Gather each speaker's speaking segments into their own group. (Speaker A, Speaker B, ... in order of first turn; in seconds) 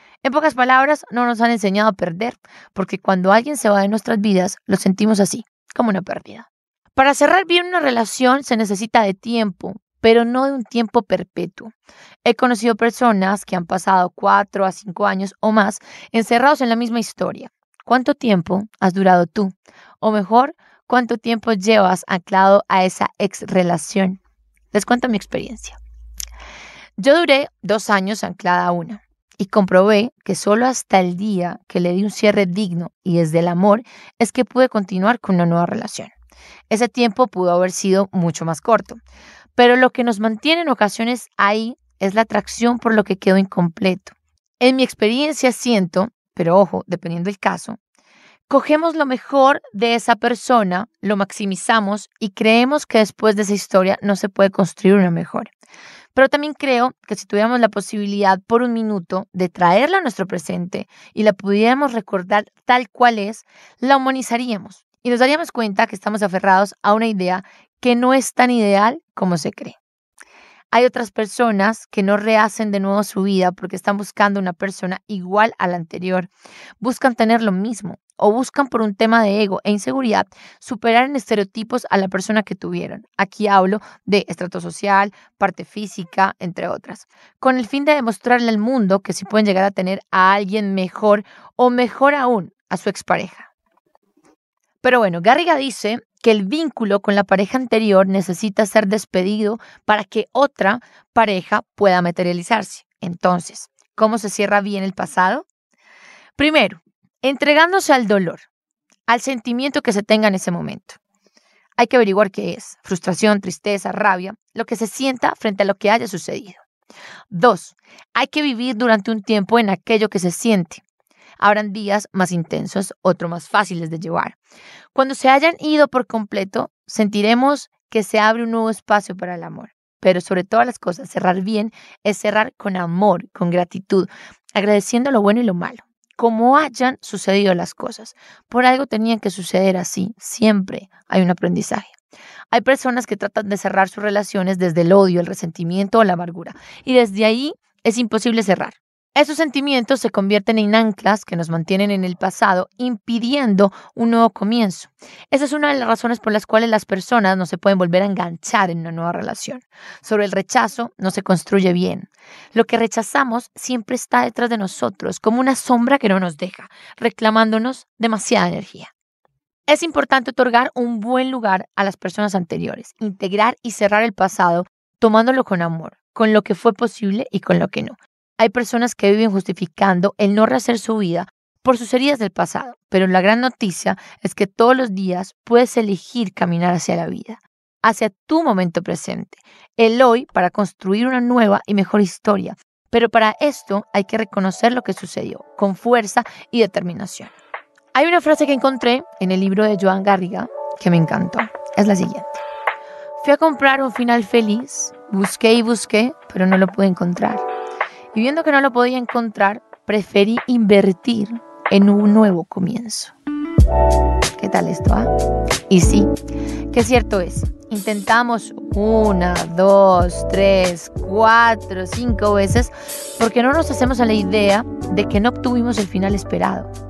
Speaker A: 0.2-24.2, 24.7-25.8, 27.0-36.1, 36.7-39.0, 39.5-47.8, 48.5-55.5, 56.1-69.8, 70.7-93.5, 94.8-105.5, 106.4-108.5, 109.1-111.0, 111.8-116.6, 117.3-120.8, 121.4-124.4, 124.9-141.9, 142.5-168.9, 169.7-197.3, 197.9-202.4, 203.2-207.4, 208.1-213.1, 214.3-215.1, 215.7-216.1, 216.7-226.7